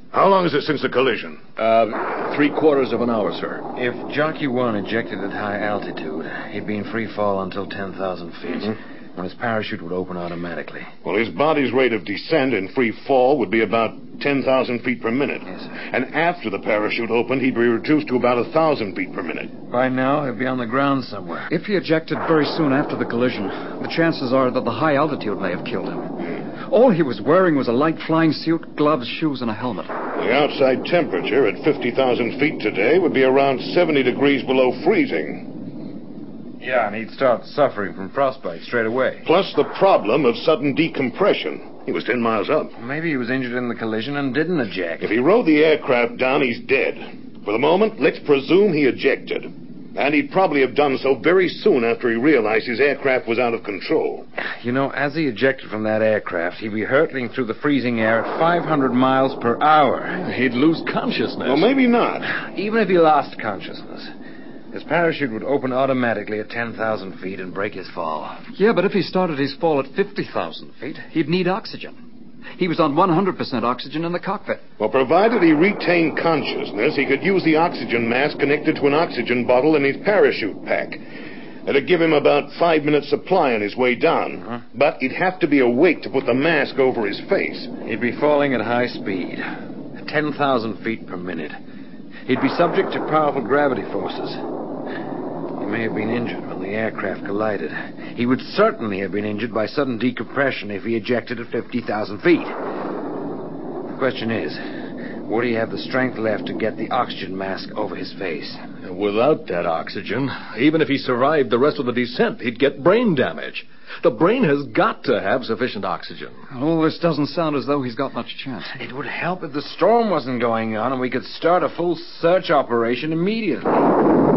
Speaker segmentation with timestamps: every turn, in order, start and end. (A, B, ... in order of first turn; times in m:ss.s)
0:00.1-0:01.4 A
0:01.6-0:03.6 B
0:03.8-0:10.9 C
0:11.0-0:19.5 A
0:19.7-0:21.5 C
0:21.5-0:26.1 D
0:26.7-0:29.9 D
0:30.2-0:35.5 A
0:36.6-0:39.2 C
0:39.2-0:42.8 A
0:42.8-0:45.1 C
0:45.0-0:54.3 A
0:54.6-1:00.2 C
1:00.1-1:01.7 B
1:01.4-1:02.3 A
1:02.3-1:04.1 C
1:04.7-1:08.4 C
1:08.6-1:12.0 D
1:10.6-1:11.0 C
1:12.6-1:14.6 D
1:14.8-1:21.0 A
1:21.7-1:27.7 A
1:27.8-1:29.4 C
1:30.0-1:31.6 C
1:32.3-1:34.4 C
1:35.6-1:42.5 C
1:43.9-1:44.6 C
1:45.3-1:48.6 C
1:48.8-1:56.4 B
1:56.5-1:58.8 D
1:58.7-2:03.8 C